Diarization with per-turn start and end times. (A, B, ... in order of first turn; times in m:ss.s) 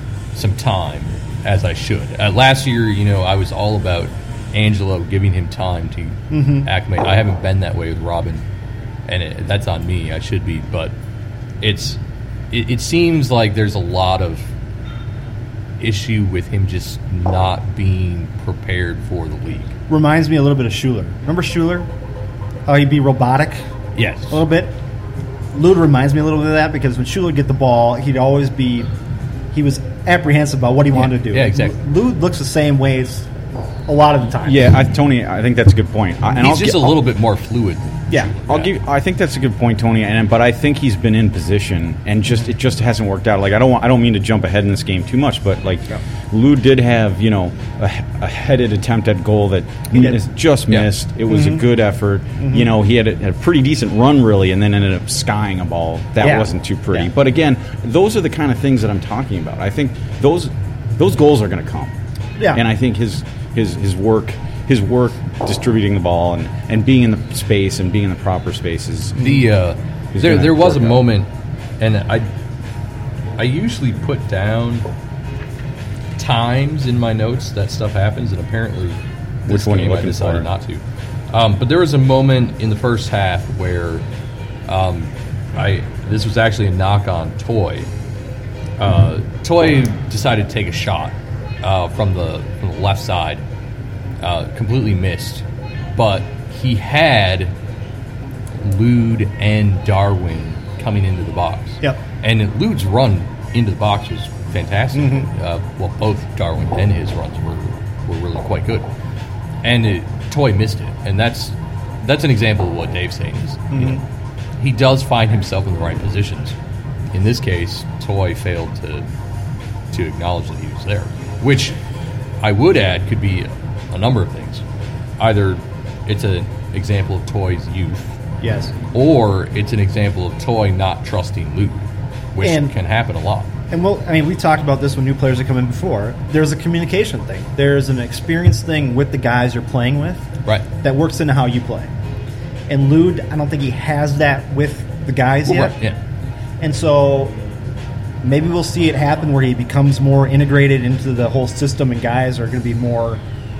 0:00.3-0:08.4 A
0:06.3-0:06.7 B
0:09.0-0:10.9 A
0:11.6-0:12.0 A
0:12.5-0:14.5 A
0:15.8-0:19.7 A
0:19.9-0:21.9 B
0:22.6-0:23.6 B
0:23.9-0:24.4 A
0:24.3-0:24.8 B
0:25.5-0:28.9 B
0:29.5-0:33.3 B
0:30.9-0:31.7 A
0:33.9-0:34.7 B
0:34.4-0:36.9 C
0:36.3-0:38.7 A
0:38.5-1:01.9 C
0:49.9-0:50.2 B
0:51.3-0:51.6 B
0:52.4-0:52.7 B
0:56.2-0:57.1 B
1:02.5-1:09.2 C
1:09.2-1:12.3 A
1:10.1-1:11.0 C
1:13.4-1:14.8 A
1:16.2-1:24.0 A
1:19.4-1:20.5 C
1:24.7-1:27.9 A
1:28.8-1:33.4 A
1:34.2-1:35.4 A
1:35.9-1:37.5 A
1:38.6-1:48.9 A
1:44.9-1:45.3 B
1:49.6-1:54.0 A
1:53.7-1:54.0 B
1:54.6-1:56.6 A
1:57.1-1:59.0 A
1:59.9-2:01.8 A
2:02.4-2:04.6 A
2:05.2-2:08.2 A
2:08.4-2:08.7 B
2:08.9-2:13.5 A
2:12.4-2:12.7 B
2:13.7-2:21.9 B
2:22.7-2:25.8 B
2:25.4-2:26.0 A
2:26.6-2:27.4 B
2:28.2-2:33.2 B